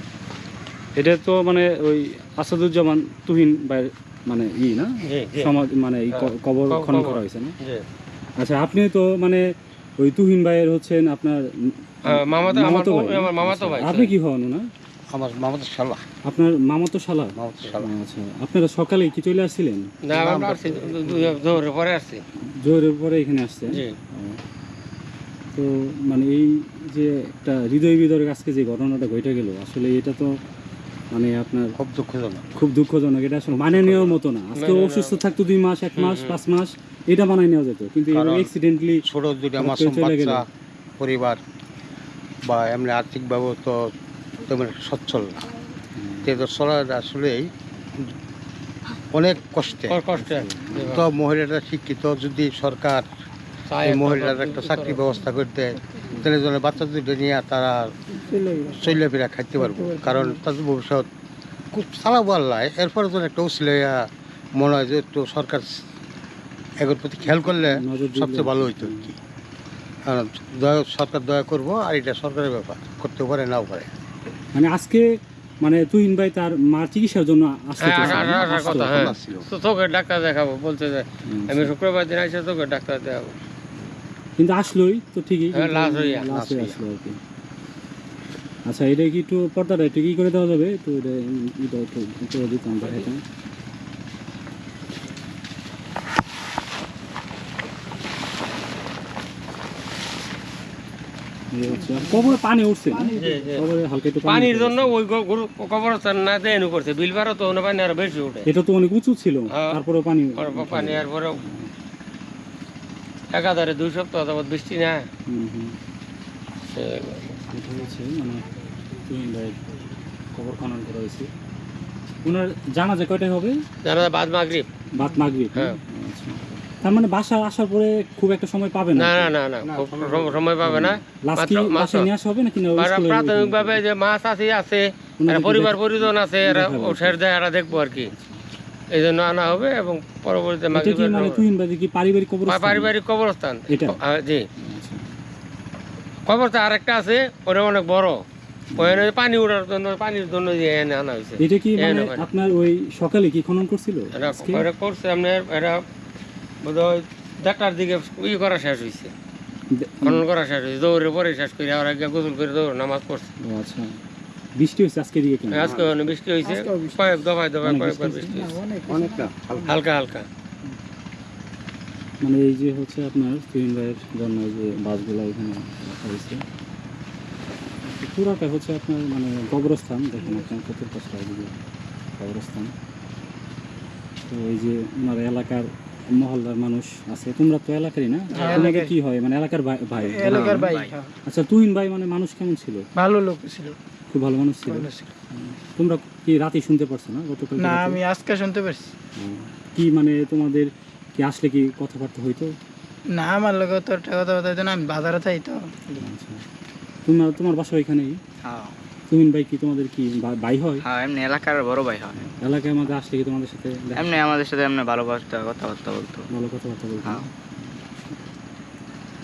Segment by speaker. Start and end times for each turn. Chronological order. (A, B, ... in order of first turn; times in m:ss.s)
0:01.0-0:07.5 A
0:05.0-0:05.5 B
0:06.1-0:07.8 B
0:08.4-0:09.4 A
0:10.0-0:14.7 A
0:12.1-0:14.1 B
0:15.1-0:16.0 C
0:16.2-0:19.9 A
0:17.4-0:17.9 C
0:20.0-0:22.2 B
0:20.1-0:21.4 C
0:22.5-0:24.4 A
0:25.5-0:30.3 A
0:31.1-0:31.8 A
0:31.8-0:32.5 C
0:32.6-0:39.0 A
0:33.5-0:34.2 C
0:34.6-0:35.2 B
0:36.0-0:36.4 B
0:38.1-0:38.5 C
0:39.0-0:40.4 C
0:39.6-0:40.4 A
0:41.0-0:41.4 C
0:42.4-0:43.8 C
0:44.4-0:45.4 C
0:46.0-0:46.4 A
0:46.2-0:47.5 C
0:49.1-0:50.0 C
0:49.9-0:51.1 B
0:50.1-0:50.9 A
0:50.8-0:53.1 C
0:53.7-0:55.0 B
0:53.8-0:57.9 C
0:58.1-0:59.0 D
0:58.8-1:01.1 C
0:59.6-1:00.4 D
1:01.7-1:04.0 C
1:04.6-1:05.7 C
1:06.8-1:09.2 C
1:07.3-1:09.1 A
1:10.1-1:13.9 C
1:14.5-1:15.0 A
1:15.6-1:19.2 A
1:17.8-1:23.3 B
1:17.9-1:19.5 C
1:21.2-1:21.7 A
1:24.4-1:27.2 A
1:25.5-1:26.3 B
1:26.3-1:26.8 C
1:28.7-1:33.2 A
1:41.5-1:44.9 A
1:43.2-1:43.6 B
1:44.2-1:48.4 B
1:48.4-1:51.7 A
1:50.4-1:51.4 B
1:53.3-1:55.0 B
1:55.3-1:55.8 A
1:56.7-1:57.4 B
1:57.5-1:58.5 A
1:59.0-1:59.6 A
2:00.3-2:01.3 A
2:02.2-2:03.6 A
2:03.8-2:04.7 B
2:04.9-2:09.3 A
2:09.0-2:12.1 B
2:09.6-2:10.5 C
2:10.6-2:13.8 A
2:12.8-2:18.1 B
2:15.2-2:17.2 A
2:18.0-2:18.4 A
2:18.9-2:21.4 B
2:20.7-2:22.9 A
2:22.5-2:24.4 B
2:23.7-2:24.0 A
2:24.6-2:25.0 A
2:26.3-2:28.2 B
2:28.7-2:29.1 A
2:28.8-2:32.2 B
2:31.4-2:34.7 A
2:34.2-2:35.8 B
2:36.6-2:39.1 B
2:39.7-2:40.2 A
2:40.0-2:43.3 B
2:43.4-2:43.9 A
2:44.6-2:45.8 A
2:45.5-2:48.6 B
2:45.6-2:45.9 C
2:46.4-2:47.2 D
2:47.6-2:48.5 A
2:48.4-2:49.7 D
2:48.9-2:49.7 C
2:49.7-2:50.2 B
2:52.2-2:56.4 A
2:57.8-3:01.6 A
3:02.2-3:02.7 A
3:04.3-3:10.7 A
3:08.3-3:08.9 D
3:10.0-3:11.1 D
3:10.2-3:10.9 E
3:11.2-3:12.8 A
3:13.0-3:13.8 D
3:14.1-3:18.0 A
3:14.7-3:15.1 D
3:17.6-3:18.9 D
3:19.2-3:22.5 A
3:23.1-3:26.0 D
3:26.0-3:26.4 A
3:27.0-3:28.2 A
3:28.4-3:28.7 E
3:29.1-3:30.8 A
3:30.8-3:32.3 E
3:32.2-3:34.2 A
3:33.9-3:36.3 E
3:36.3-3:37.8 A